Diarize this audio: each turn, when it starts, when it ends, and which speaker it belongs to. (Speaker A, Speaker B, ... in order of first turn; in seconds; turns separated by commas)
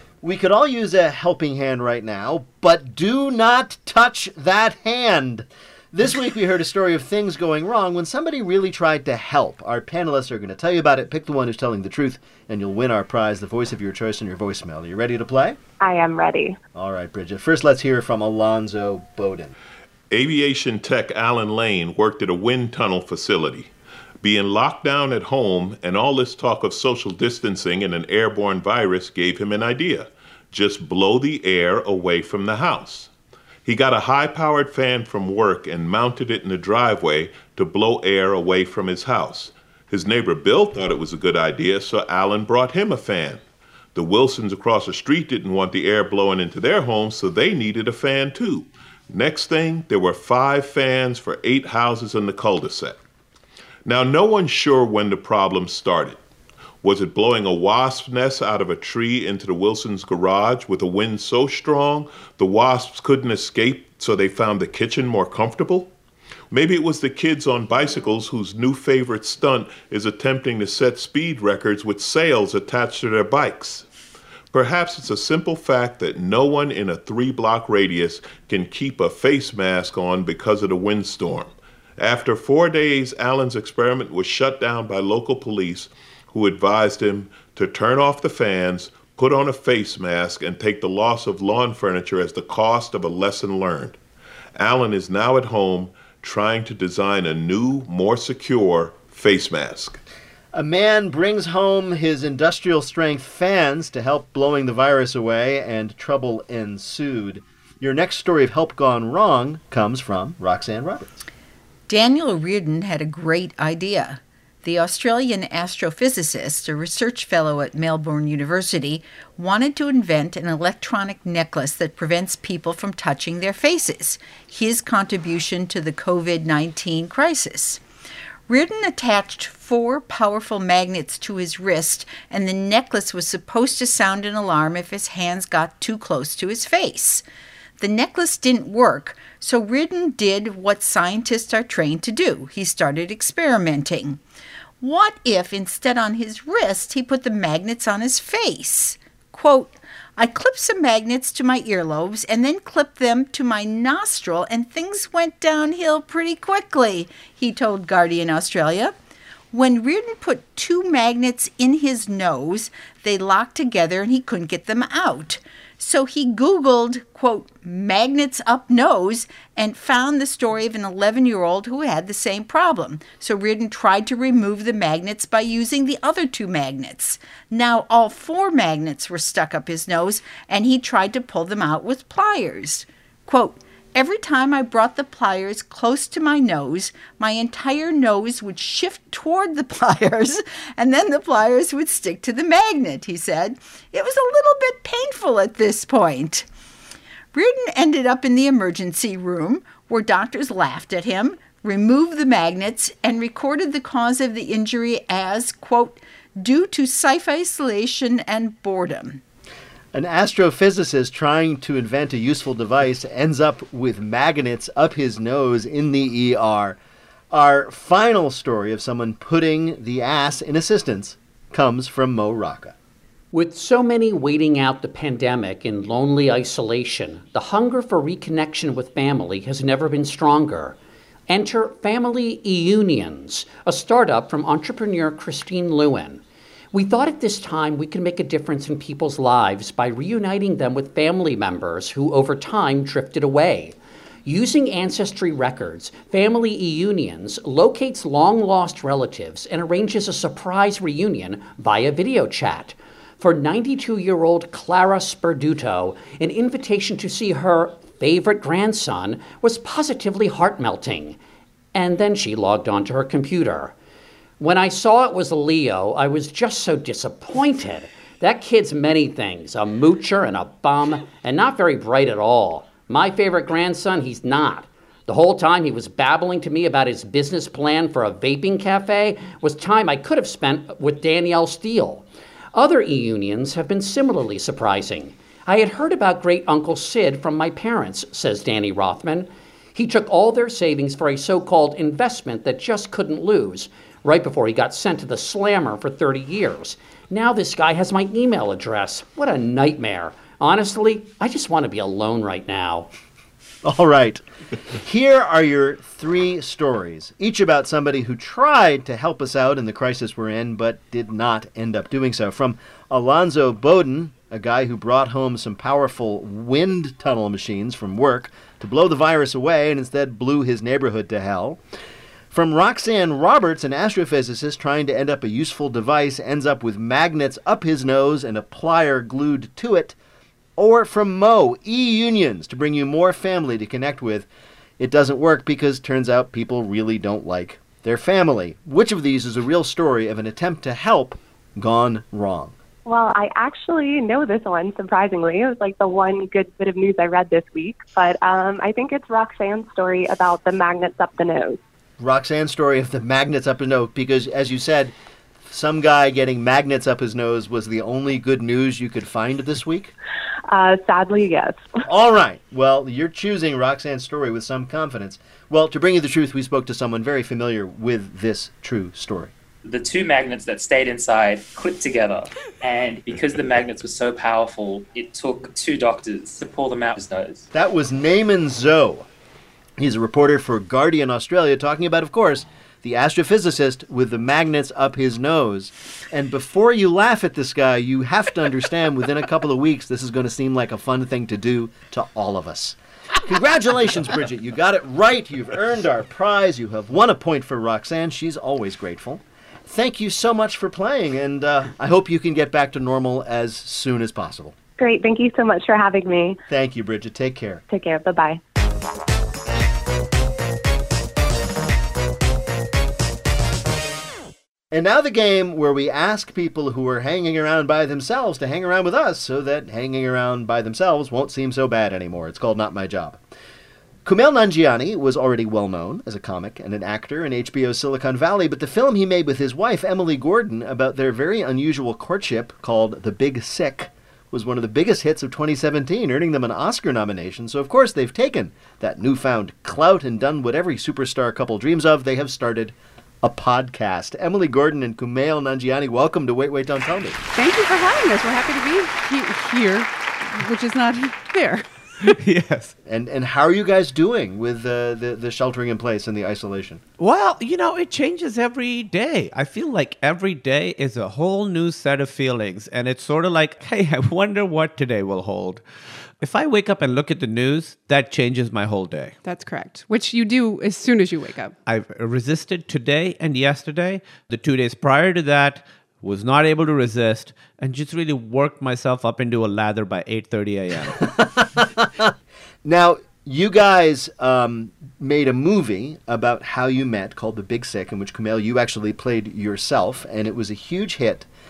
Speaker A: 0.2-15.6, Speaker B: 15.8-16.6, Speaker A: 16.8-19.5, Speaker C: 20.1-23.7, Speaker C: 24.2-33.1, Speaker C: 33.6-43.4, Speaker C: 44.0-53.0, Speaker C: 53.9-56.2, Speaker C: 56.8-65.9, Speaker C: 66.5-73.9, Speaker C: 74.5-94.0, Speaker C: 94.6-100.0, Speaker A: 100.5-111.2, Speaker D: 111.9-127.8, Speaker D: 128.5-137.2, Speaker D: 137.8-144.2, Speaker D: 144.8-158.9, Speaker D: 159.5-196.5, Speaker D: 197.3-209.2, Speaker A: 209.9-216.8, Speaker A: 217.3-222.8, Speaker E: 223.3-230.8, Speaker E: 231.3-236.2, Speaker E: 236.7-243.8, Speaker E: 244.3-261.2, Speaker E: 261.7-263.7, Speaker E: 264.4-302.9, Speaker A: 303.6-304.2, Speaker A: 304.8-321.6, Speaker A: 322.3-329.9, Speaker A: 330.6-334.3, Speaker A: 334.8-342.6, Speaker B: 342.9-351.6, Speaker A: 352.0-354.9, Speaker A: 355.5-359.9, Speaker B: 360.5-361.7, Speaker A: 361.9-369.3, Speaker F: 369.6-377.5, Speaker A: 377.5-379.1, Speaker A: 379.8-404.6, Speaker B: 404.8-406.4, Speaker A: 406.5-407.6, Speaker B: 407.7-408.4, Speaker A: 414.7-423.2, Speaker A: 424.1-447.2, Speaker G: 447.3-452.1, Speaker H: 452.1-452.7, Speaker A: 452.9-456.8, Speaker H: 457.0-465.6, Speaker H: 466.2-469.1, Speaker G: 469.2-471.5, Speaker H: 471.7-481.1, Speaker A: 481.3-482.1, Speaker A: 482.6-491.3